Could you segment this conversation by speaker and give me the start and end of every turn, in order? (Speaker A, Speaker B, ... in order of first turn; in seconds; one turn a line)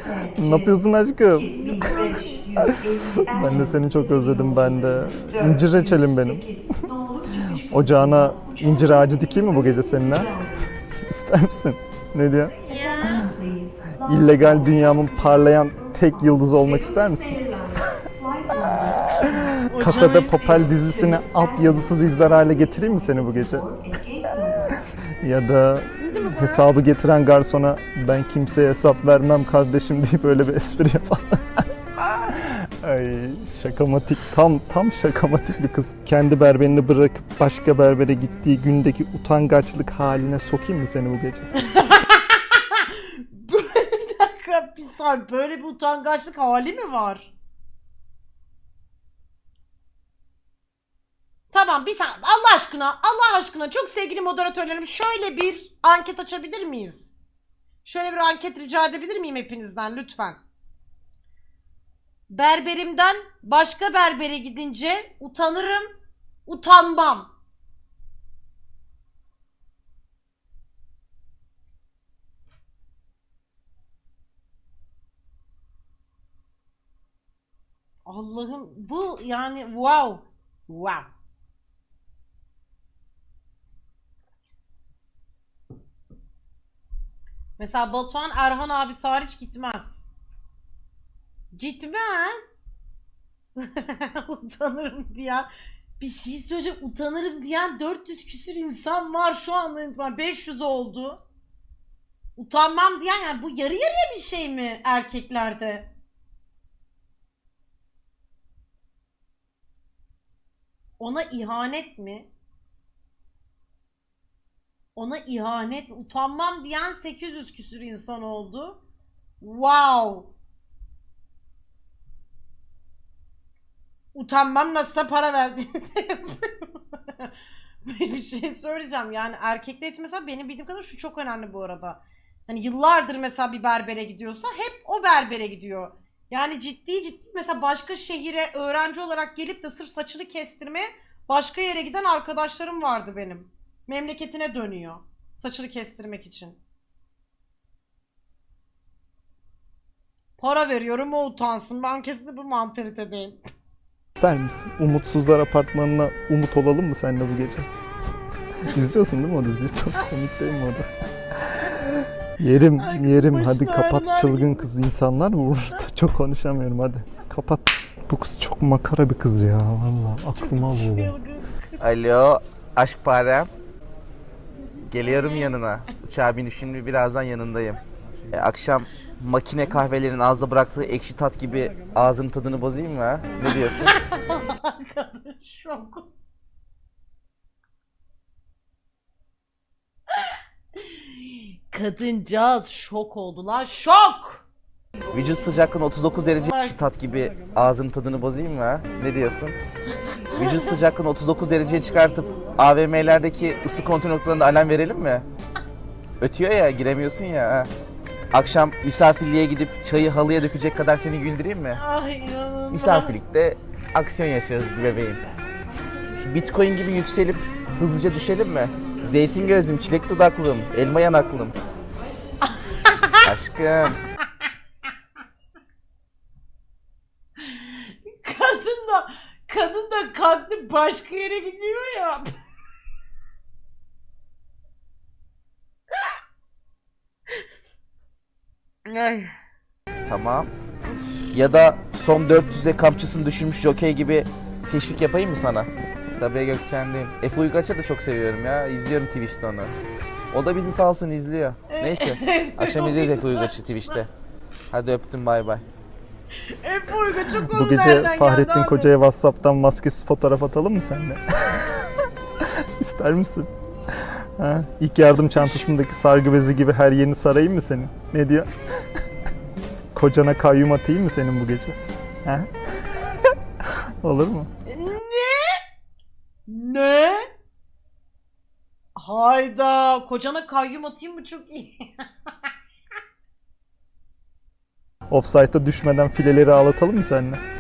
Speaker A: 0.3-2.0
Speaker B: 2.0-2.4
Speaker A: 2.6-10.4
Speaker A: 11.1-13.3
Speaker B: 12.6-13.3
Speaker A: 14.0-17.9
Speaker A: 18.5-23.7
Speaker B: 19.7-20.4
Speaker A: 24.4-41.5
Speaker B: 26.1-26.4
Speaker B: 41.6-47.3
Speaker B: 51.5-57.2
Speaker B: 57.8-60.4
Speaker B: 62.3-65.9
Speaker B: 66.5-67.3
Speaker B: 78.1-81.1
Speaker B: 87.6-90.1
Speaker B: 91.5-92.6
Speaker B: 93.6-101.2
Speaker B: 102.4-105.9
Speaker B: 111.0-112.3
Speaker B: 115.0-118.8
Speaker B: 119.4-120.3
Speaker B: 124.1-127.3
Speaker B: 127.8-146.6
Speaker B: 150.4-153.4
Speaker A: 154.2-157.7
Speaker A: 158.6-171.2
Speaker B: 162.8-164.7
Speaker B: 170.4-171.8
Speaker C: 171.8-173.5
Speaker C: 174.9-183.9
Speaker B: 183.6-186.1
Speaker B: 190.2-194.5
Speaker C: 195.1-199.6
Speaker C: 200.3-205.3
Speaker C: 206.2-207.7
Speaker C: 208.3-211.8
Speaker B: 211.7-213.1
Speaker C: 212.7-215.2
Speaker C: 216.2-221.6
Speaker B: 222.5-223.2
Speaker C: 223.2-224.0
Speaker B: 227.4-232.4
Speaker B: 238.9-239.3
Speaker C: 240.1-240.5
Speaker C: 241.3-249.8
Speaker C: 250.3-254.1
Speaker B: 251.7-254.0
Speaker C: 254.7-255.7
Speaker B: 256.4-258.9
Speaker A: 257.4-268.5
Speaker A: 269.9-272.5
Speaker A: 273.2-274.5
Speaker B: 274.7-275.6
Speaker B: 276.5-277.3
Speaker B: 279.0-282.1
Speaker A: 285.1-287.4